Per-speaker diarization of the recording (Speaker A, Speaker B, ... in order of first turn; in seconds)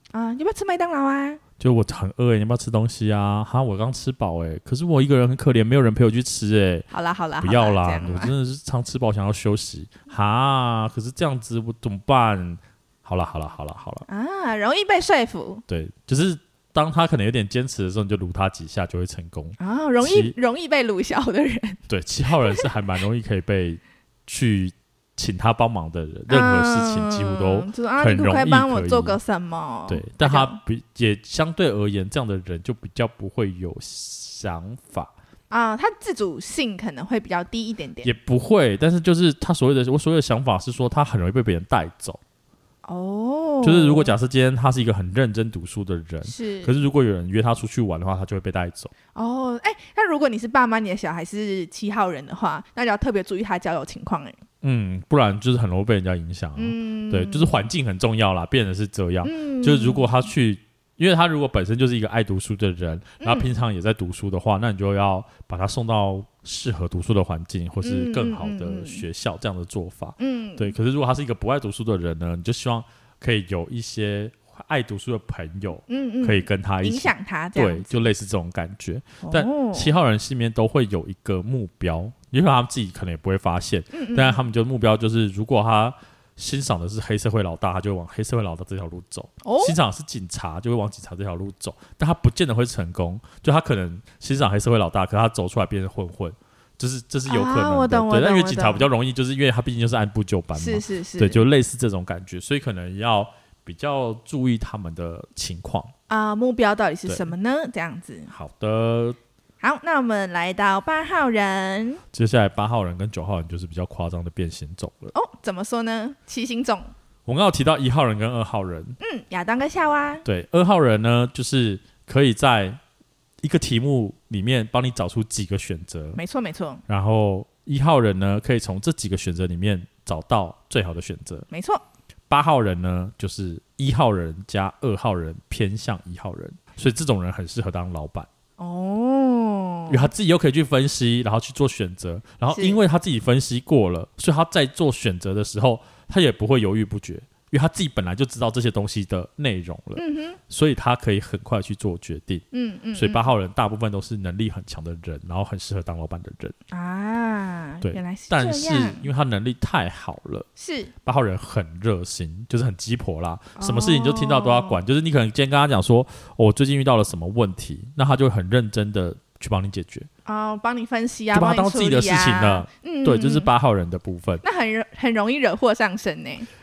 Speaker A: 0.1-1.4, 6.9-8.3, 14.1-15.6, 19.6-21.8, 26.3-30.6, 35.5-38.1, 42.8-44.1, 46.2-46.8, 49.1-54.4, 56.6-57.6, 59.2-60.1, 63.2-63.5, 67.8-69.0, 70.2-70.8, 75.9-77.9, 79.2-79.9, 83.9-84.4, 89.4-89.8, 97.2-98.9, 100.5-101.4, 106.1-108.3, 109.6-112.0, 115.1-116.9, 119.0-120.2, 126.2-126.8, 131.5-131.8, 138.6-140.1, 142.5-142.8, 150.0-150.4, 152.5-153.3, 156.7-159.1, 160.6-160.9, 163.6-164.8, 170.2-173.5, 174.4-176.5
Speaker B: 1.6-6.9, 7.4-14.1, 15.7-20.3, 21.9-29.2, 29.9-35.1, 38.0-42.2, 43.6-48.9, 54.6-105.9, 108.3-109.2, 112.1-115.1, 117.2-119.0, 120.2-122.8, 123.4-126.2, 126.9-131.5, 132.3-138.3, 139.9-152.4, 152.9-156.5, 157.8-160.5, 161.0-170.1, 171.3-174.4